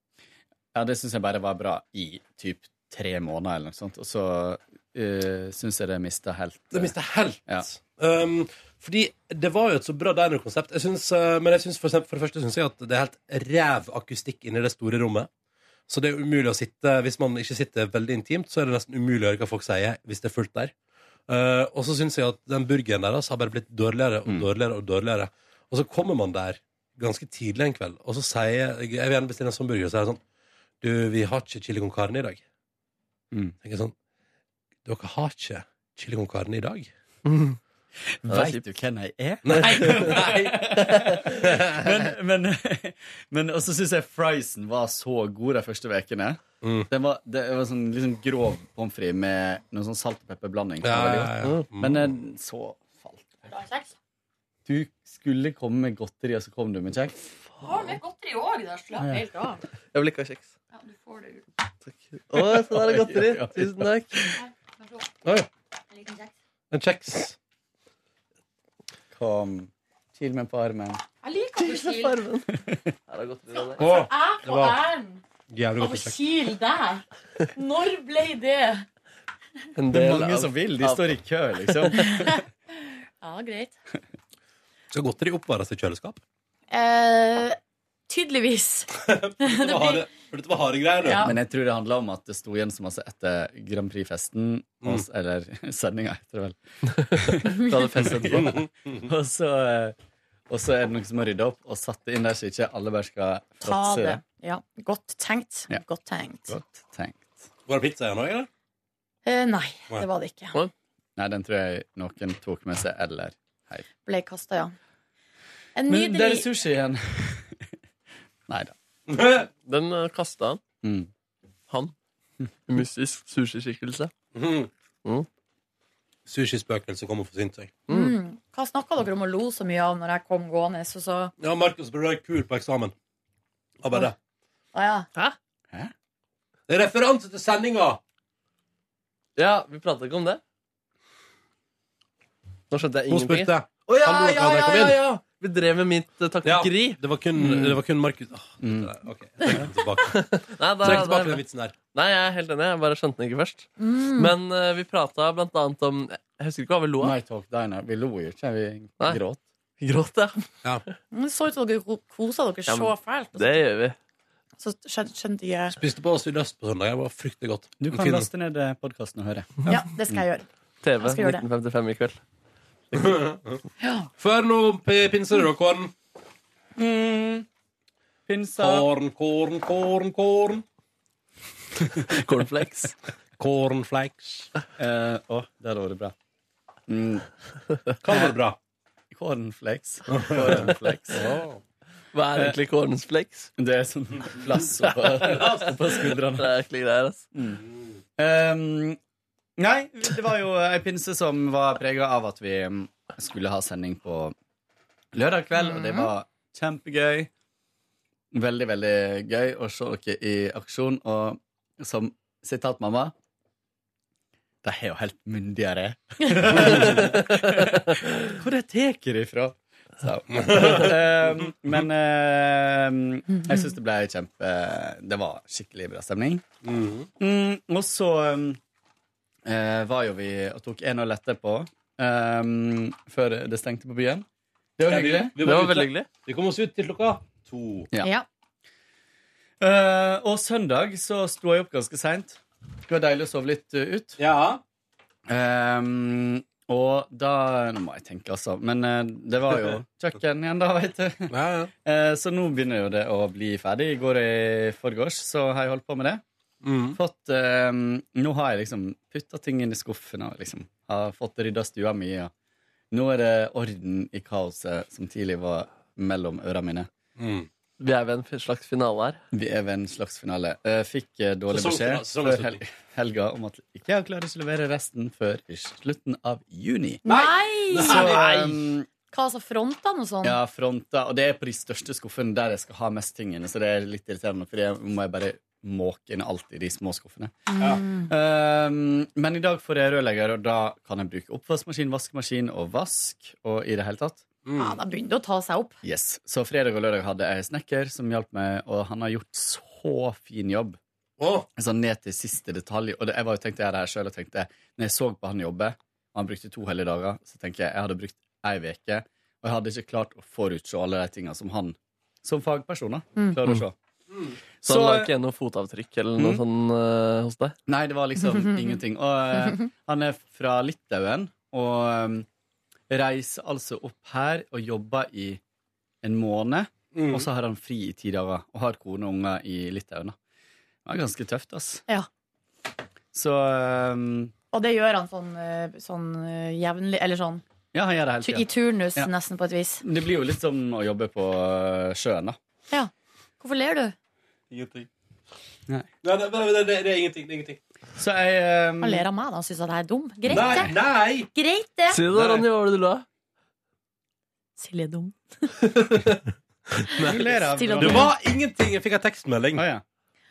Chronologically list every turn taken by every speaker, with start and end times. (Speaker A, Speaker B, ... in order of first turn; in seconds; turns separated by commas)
Speaker A: 0.8-7.0, Speaker B: 6.7-15.3, Speaker B: 15.9-20.7, Speaker B: 21.3-30.2, Speaker B: 30.8-32.4, Speaker B: 33.6-34.0, Speaker B: 34.9-36.9, Speaker C: 37.3-37.6, Speaker A: 38.2-53.5, Speaker C: 38.3-38.6, Speaker B: 39.5-40.6, Speaker C: 39.5-41.2, Speaker B: 41.3-42.1, Speaker B: 46.6-46.9, Speaker B: 50.8-52.2, Speaker D: 53.5-53.9, Speaker A: 54.7-57.2, Speaker D: 57.6-59.6, Speaker C: 59.9-60.5, Speaker D: 60.7-61.4, Speaker C: 61.9-64.3, Speaker A: 62.4-64.4, Speaker D: 64.4-65.0, Speaker D: 65.9-66.3, Speaker B: 66.7-67.4, Speaker A: 69.1-71.0, Speaker D: 71.2-72.1, Speaker C: 71.6-72.5, Speaker C: 73.1-73.9, Speaker D: 73.5-75.2, Speaker B: 73.8-74.8, Speaker B: 75.5-76.2, Speaker D: 75.8-78.8, Speaker C: 79.8-81.1, Speaker A: 79.9-82.4, Speaker D: 81.9-83.7, Speaker B: 84.9-86.2, Speaker D: 86.7-87.6, Speaker D: 88.1-90.1, Speaker B: 89.0-91.3, Speaker D: 91.0-91.4, Speaker A: 91.2-96.6, Speaker C: 97.1-98.6, Speaker A: 97.2-100.0, Speaker B: 98.3-98.7, Speaker A: 100.5-104.2, Speaker D: 103.6-106.5, Speaker A: 106.5-107.5, Speaker B: 107.7-108.5, Speaker D: 109.3-110.6, Speaker A: 111.2-113.9, Speaker D: 114.0-114.8, Speaker D: 115.8-116.5, Speaker A: 115.9-117.6, Speaker A: 118.5-118.7, Speaker B: 119.1-119.5, Speaker C: 119.6-120.6, Speaker A: 120.8-121.1, Speaker C: 122.7-124.1, Speaker B: 124.3-124.7, Speaker B: 126.3-127.8, Speaker C: 127.9-128.2, Speaker D: 127.9-131.3, Speaker B: 131.4-132.9, Speaker B: 133.8-134.2, Speaker D: 134.7-135.1, Speaker B: 136.7-138.0, Speaker C: 139.4-140.4, Speaker C: 142.7-147.0, Speaker B: 143.1-145.0, Speaker B: 146.4-150.2, Speaker A: 147.4-147.8, Speaker A: 148.6-148.9, Speaker C: 150.1-151.4, Speaker B: 150.8-151.8, Speaker C: 151.9-157.2, Speaker D: 153.8-154.3, Speaker A: 157.0-159.4, Speaker C: 159.8-160.5, Speaker D: 161.1-163.6, Speaker C: 162.7-163.9, Speaker D: 164.6-165.8, Speaker B: 165.8-168.3, Speaker A: 167.8-169.7, Speaker D: 169.7-170.5, Speaker C: 170.8-172.2, Speaker D: 171.0-171.4, Speaker B: 172.9-173.6, Speaker D: 173.8-174.1, Speaker B: 174.2-175.9, Speaker A: 176.8-177.5, Speaker A: 178.3-178.9, Speaker B: 178.6-180.7, Speaker C: 182.1-182.9, Speaker B: 183.4-184.5, Speaker A: 184.8-186.1, Speaker A: 186.9-187.3, Speaker B: 188.0-188.6, Speaker A: 188.1-188.4, Speaker A: 189.1-191.3, Speaker B: 190.1-191.6, Speaker C: 192.1-193.5, Speaker A: 193.6-196.5, Speaker C: 195.0-197.2, Speaker B: 195.2-195.9, Speaker A: 197.3-197.6, Speaker B: 197.6-197.9, Speaker A: 198.2-199.0, Speaker A: 199.6-204.3, Speaker A: 205.1-207.3, Speaker D: 205.6-206.1, Speaker A: 208.3-213.1, Speaker A: 214.6-226.4, Speaker B: 216.6-217.1, Speaker B: 220.4-220.9, Speaker B: 226.6-227.1, Speaker A: 227.2-228.6, Speaker A: 229.4-234.3, Speaker A: 234.8-235.4, Speaker B: 234.9-237.9, Speaker C: 235.4-236.1, Speaker D: 238.0-238.3, Speaker A: 239.6-244.2, Speaker B: 244.2-244.6, Speaker A: 245.3-251.3, Speaker B: 251.3-251.7, Speaker A: 251.8-256.2, Speaker B: 256.6-257.0, Speaker A: 256.9-262.3, Speaker A: 262.9-266.9, Speaker B: 267.2-267.5, Speaker C: 267.8-269.2, Speaker A: 269.3-277.0, Speaker B: 271.5-272.6, Speaker D: 277.1-278.1, Speaker B: 277.1-278.5, Speaker A: 277.8-278.9, Speaker D: 279.1-280.4, Speaker A: 280.2-294.3, Speaker D: 287.5-288.1, Speaker B: 294.4-294.8, Speaker D: 294.6-295.8, Speaker A: 295.8-300.8, Speaker B: 301.2-301.5, Speaker A: 301.6-313.8, Speaker A: 314.6-315.1, Speaker C: 314.6-317.6, Speaker A: 317.7-322.3, Speaker D: 318.4-318.7, Speaker A: 322.9-325.4, Speaker A: 326.0-330.2, Speaker B: 326.9-327.3, Speaker A: 330.9-331.8, Speaker A: 333.1-334.3, Speaker D: 334.5-337.4, Speaker A: 337.7-339.1, Speaker D: 338.2-339.8, Speaker A: 339.8-342.4, Speaker D: 342.7-343.9, Speaker B: 344.5-344.9, Speaker B: 346.0-347.6, Speaker A: 348.0-349.1, Speaker D: 348.8-350.8, Speaker B: 350.3-351.3, Speaker D: 351.3-352.0, Speaker C: 351.9-353.1, Speaker B: 352.1-352.4, Speaker D: 354.6-355.5, Speaker C: 355.8-356.2, Speaker B: 356.9-359.7, Speaker D: 357.0-358.1, Speaker A: 357.0-358.1, Speaker A: 359.6-359.8